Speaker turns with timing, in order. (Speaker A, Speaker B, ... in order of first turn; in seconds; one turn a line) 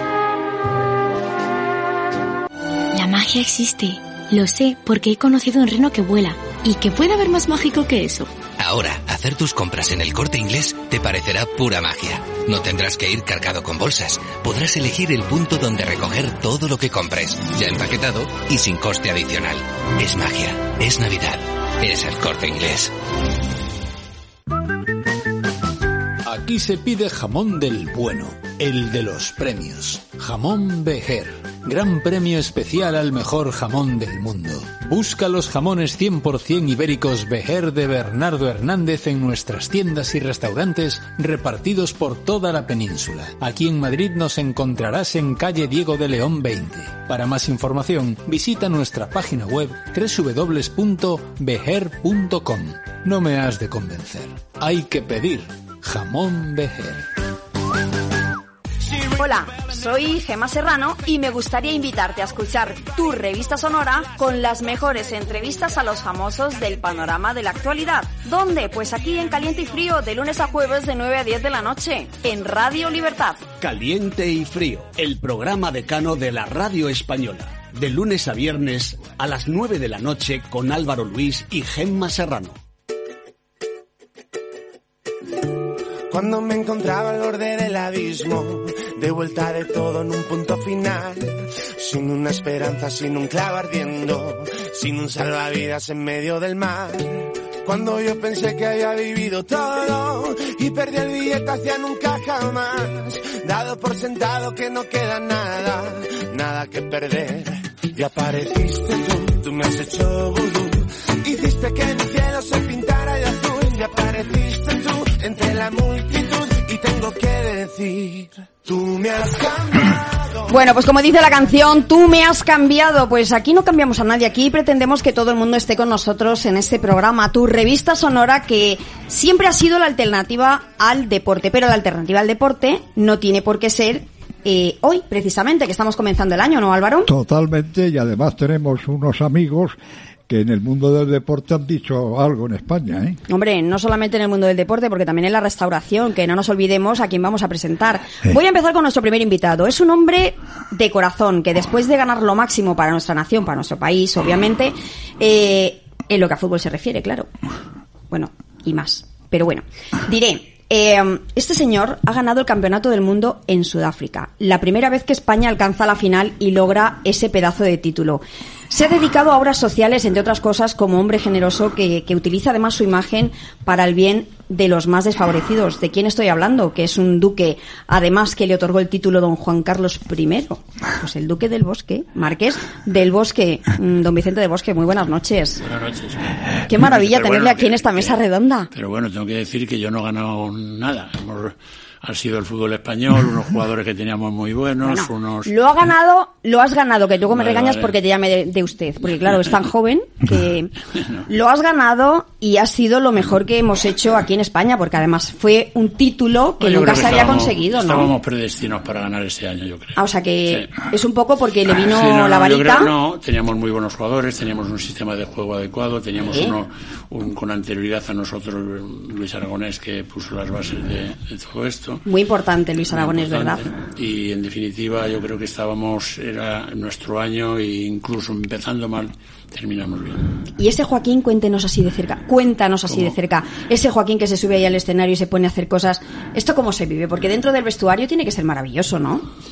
Speaker A: 2.9-8.4
Speaker B: 8.6-22.9
Speaker C: 26.2-57.1
Speaker D: 59.2-73.4
Speaker E: 73.6-82.6
Speaker F: 86.1-120.5
Speaker D: 120.5-137.1
Speaker G: 137.1-139.8
Speaker G: 140.3-143.2
Speaker D: 143.3-157.3
Speaker D: 158.1-185.6
Speaker H: 185.6-188.2
Speaker D: 186.7-188.7
Speaker H: 188.7-195.5
Speaker D: 194.8-200.7
Speaker H: 197.3-197.9
Speaker D: 201.3-208.1
Speaker H: 206.6-210.7
Speaker D: 210.0-212.9
Speaker H: 211.8-222.0
Speaker D: 222.1-223.6
Speaker H: 222.9-230.2
Speaker D: 230.6-239.3
Speaker H: 232.9-233.2